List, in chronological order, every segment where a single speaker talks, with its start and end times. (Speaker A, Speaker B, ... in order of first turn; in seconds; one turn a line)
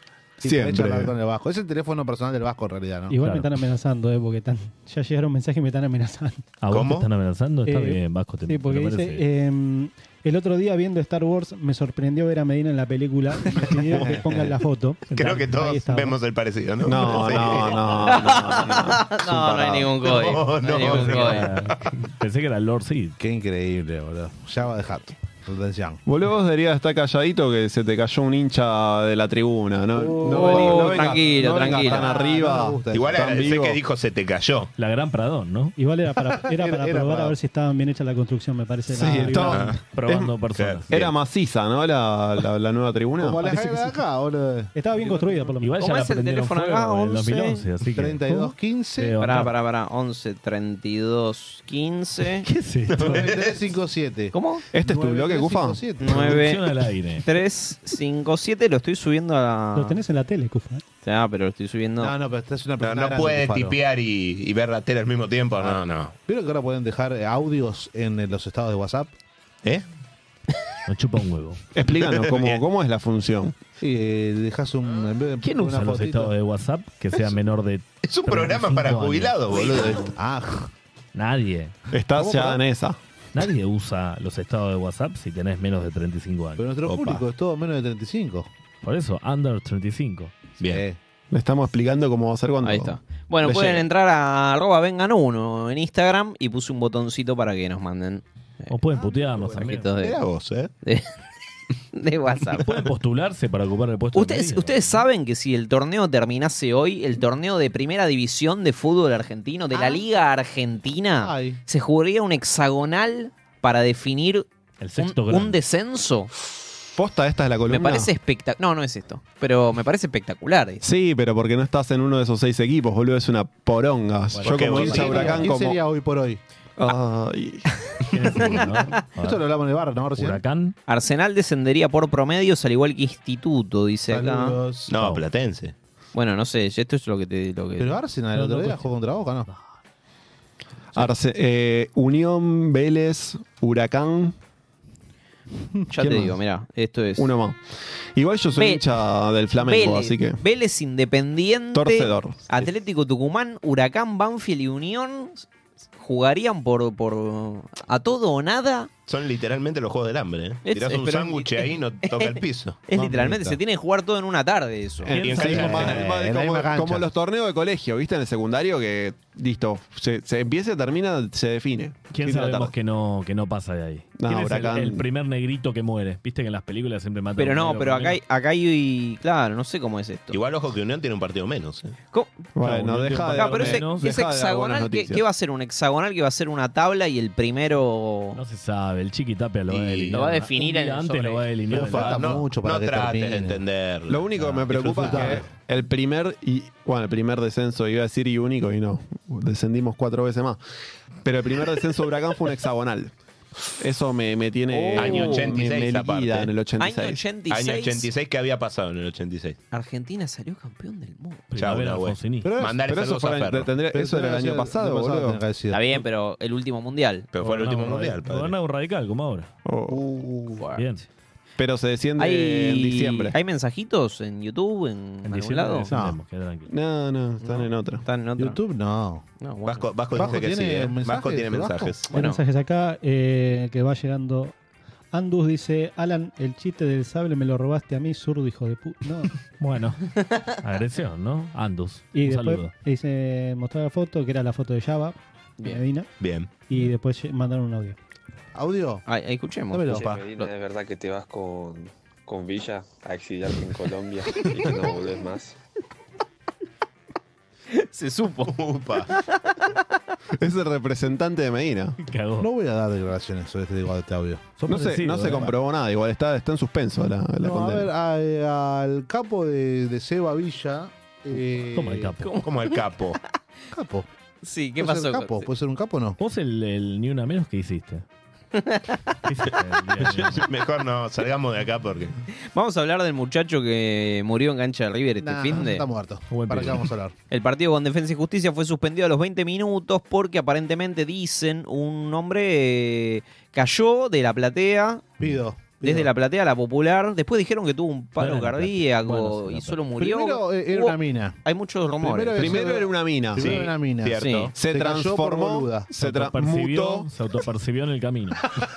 Speaker A: 0.4-3.1
Speaker B: 0.4-1.1
Speaker C: 3.1-6.4
Speaker D: 3.2-3.5
Speaker D: 6.6-9.2
Speaker E: 6.7-7.0
Speaker C: 7.6-16.2
Speaker A: 13.9-14.5
Speaker D: 15.1-15.4
Speaker E: 15.1-18.0
Speaker B: 16.8-19.9
Speaker F: 18.0-21.5
Speaker E: 19.9-21.6
Speaker D: 20.8-23.2
Speaker A: 23.2-26.0
Speaker B: 26.1-33.8
Speaker A: 29.9-33.5
Speaker F: 30.3-32.1
Speaker E: 32.9-34.7
Speaker D: 34.8-35.8
Speaker C: 35.8-39.7
Speaker A: 36.1-37.4
Speaker B: 38.9-40.3
Speaker D: 39.3-40.9
Speaker E: 39.4-39.7
Speaker E: 40.5-41.1
Speaker B: 40.9-43.5
Speaker A: 43.2-44.7
Speaker C: 43.4-43.9
Speaker C: 44.7-45.7
Speaker D: 45.6-49.5
Speaker F: 45.8-47.6
Speaker A: 47.9-49.1
Speaker F: 49.2-52.5
Speaker D: 52.4-53.3
Speaker E: 52.9-53.5
Speaker A: 53.0-56.4
Speaker F: 54.3-54.6
Speaker B: 54.7-55.8
Speaker F: 56.0-56.7
Speaker D: 56.0-57.2
Speaker F: 57.2-60.0
Speaker C: 59.7-60.8
Speaker F: 61.0-62.1
Speaker A: 62.0-63.8
Speaker E: 62.8-66.1
Speaker A: 65.6-69.1
Speaker D: 70.9-71.6
Speaker B: 71.7-73.5
Speaker E: 72.1-72.6
Speaker A: 73.8-76.3
Speaker D: 75.4-79.7
Speaker E: 78.0-80.1
Speaker A: 79.6-80.7
Speaker D: 81.1-81.7
Speaker B: 81.9-83.0
Speaker A: 82.2-82.6
Speaker D: 83.3-86.6
Speaker A: 86.6-88.5
Speaker E: 86.9-87.2
Speaker D: 88.8-90.3
Speaker E: 90.6-90.8
Speaker A: 90.7-91.0
Speaker B: 91.3-93.0
Speaker F: 92.6-98.7
Speaker B: 93.5-93.8
Speaker D: 98.7-99.9
Speaker A: 98.9-100.2
Speaker F: 99.5-100.2
Speaker E: 100.1-100.7
Speaker F: 100.8-101.1
Speaker F: 101.9-102.7
Speaker D: 102.6-105.0
Speaker F: 104.1-116.3
Speaker A: 109.7-110.0
Speaker A: 111.2-111.6
Speaker D: 114.8-115.6
Speaker B: 116.9-118.1
Speaker F: 117.7-120.8
Speaker B: 120.8-125.8
Speaker A: 124.3-126.4
Speaker E: 124.4-125.4
Speaker B: 126.8-127.7
Speaker D: 128.1-129.4
Speaker A: 129.2-130.4
Speaker D: 130.1-130.8
Speaker F: 130.9-134.6
Speaker A: 134.1-135.0
Speaker E: 134.9-135.7
Speaker F: 136.1-138.0
Speaker A: 137.8-139.5
Speaker D: 138.3-138.9
Speaker D: 139.5-139.7
Speaker B: 140.9-144.3
Speaker F: 145.9-147.3
Speaker B: 146.0-146.4
Speaker B: 147.2-150.4
Speaker F: 148.6-148.8
Speaker F: 149.6-155.5
Speaker B: 151.7-152.6
Speaker F: 156.0-158.9
Speaker E: 159.1-162.8
Speaker F: 160.6-165.2
Speaker A: 162.9-163.6
Speaker B: 165.1-172.7
Speaker E: 165.2-166.0
Speaker D: 165.2-165.8
Speaker A: 165.3-167.1
Speaker D: 172.1-178.2
Speaker B: 174.2-175.0
Speaker F: 177.4-180.4
Speaker E: 180.3-181.9
Speaker F: 182.1-182.5
Speaker B: 182.6-185.2
Speaker D: 182.6-184.1
Speaker F: 183.3-188.4
Speaker D: 188.3-192.4
Speaker E: 189.7-190.2
Speaker F: 190.1-191.4
Speaker A: 191.7-193.6
Speaker E: 191.7-195.3
Speaker B: 194.1-200.6
Speaker D: 194.4-195.3
Speaker A: 194.9-195.4
Speaker B: 201.2-203.1
Speaker B: 203.8-207.2
Speaker F: 204.7-205.5
Speaker E: 204.9-206.5
Speaker F: 206.8-208.1
Speaker E: 207.5-209.6
Speaker F: 209.7-211.5
Speaker D: 211.5-212.5
Speaker E: 211.6-213.7
Speaker A: 212.4-212.8
Speaker B: 212.8-215.4
Speaker A: 213.9-216.0
Speaker F: 215.7-217.3
Speaker E: 217.3-218.5
Speaker D: 217.4-219.5
Speaker B: 219.6-220.4
Speaker A: 219.9-220.5
Speaker F: 220.5-220.8
Speaker D: 220.8-221.1
Speaker B: 221.6-223.3
Speaker F: 222.2-225.9
Speaker D: 225.2-226.7
Speaker A: 225.9-226.2
Speaker B: 226.7-228.0
Speaker F: 227.4-228.6
Speaker A: 228.4-229.2
Speaker F: 229.4-229.9
Speaker E: 229.7-232.1
Speaker A: 230.1-232.0
Speaker C: 232.1-234.5
Speaker F: 232.1-232.4
Speaker C: 235.1-239.3
Speaker D: 239.6-242.7
Speaker C: 242.1-246.1
Speaker E: 246.2-246.5
Speaker C: 246.7-248.0
Speaker A: 248.5-249.0
Speaker F: 249.1-250.5
Speaker A: 249.7-250.1
Speaker G: 249.9-255.6
Speaker F: 257.7-258.5
Speaker E: 258.4-259.1
Speaker B: 260.4-262.0
Speaker D: 262.0-262.5
Speaker A: 262.4-264.6
Speaker D: 264.6-265.5
Speaker B: 264.7-267.9
Speaker A: 267.4-272.1
Speaker D: 271.7-272.3
Speaker F: 272.2-272.8
Speaker E: 272.4-273.2
Speaker A: 273.7-274.1
Speaker F: 274.4-275.5
Speaker A: 274.8-276.2
Speaker D: 276.2-278.0
Speaker F: 278.6-279.0
Speaker D: 279.2-280.5
Speaker E: 280.0-282.1
Speaker F: 282.4-285.9
Speaker A: 285.2-287.1
Speaker D: 286.3-286.9
Speaker F: 287.3-295.2
Speaker A: 295.2-296.1
Speaker F: 295.8-302.6
Speaker D: 298.2-299.8
Speaker A: 300.0-301.4
Speaker A: 302.0-305.9
Speaker B: 302.3-303.6
Speaker E: 303.4-304.5
Speaker F: 304.2-304.5
Speaker B: 304.5-307.1
Speaker D: 306.0-308.5